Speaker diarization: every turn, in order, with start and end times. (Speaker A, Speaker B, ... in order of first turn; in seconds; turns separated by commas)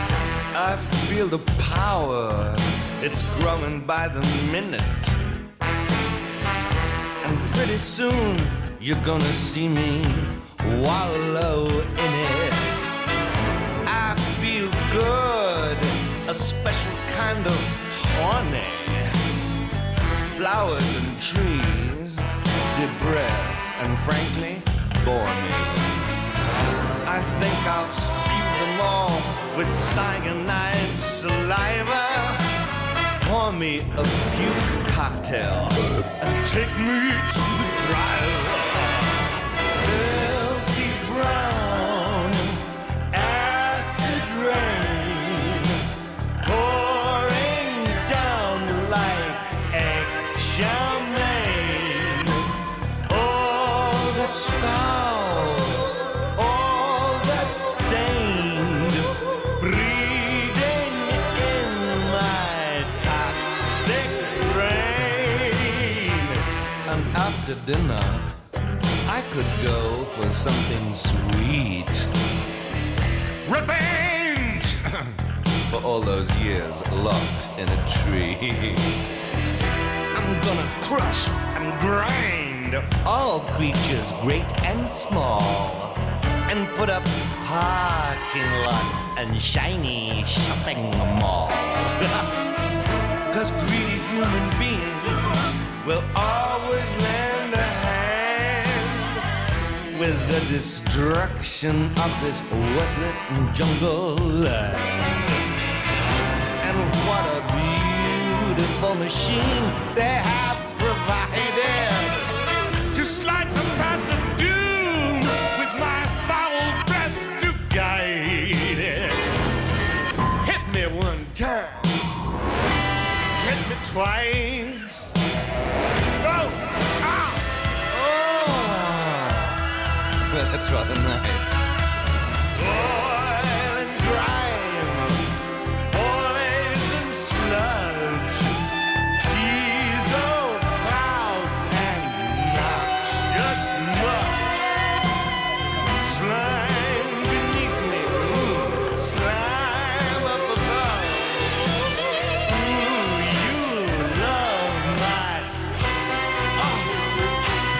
Speaker A: 0.5-5.2, Speaker A: 7.2-12.8, Speaker A: 13.8-19.1, Speaker A: 20.3-26.1, Speaker A: 27.0-32.4, Speaker A: 33.2-39.2, Speaker A: 39.8-42.6, Speaker A: 43.1-45.7, Speaker A: 46.4-52.4, Speaker A: 53.1-68.3, Speaker A: 69.0-72.1, Speaker A: 73.4-74.8, Speaker A: 75.7-78.9, Speaker A: 80.1-86.0, Speaker A: 86.5-92.2, Speaker A: 93.3-99.1, Speaker A: 99.9-105.3, Speaker A: 106.6-112.3, Speaker A: 112.9-119.3, Speaker A: 120.4-122.0, Speaker A: 123.3-125.1, Speaker A: 126.2-129.5, Speaker A: 130.3-131.6, Speaker A: 132.6-135.2, Speaker A: 135.9-138.6, Speaker A: 139.2-144.8, Speaker A: 146.0-151.7, Speaker A: 152.4-155.8, Speaker A: 156.6-157.1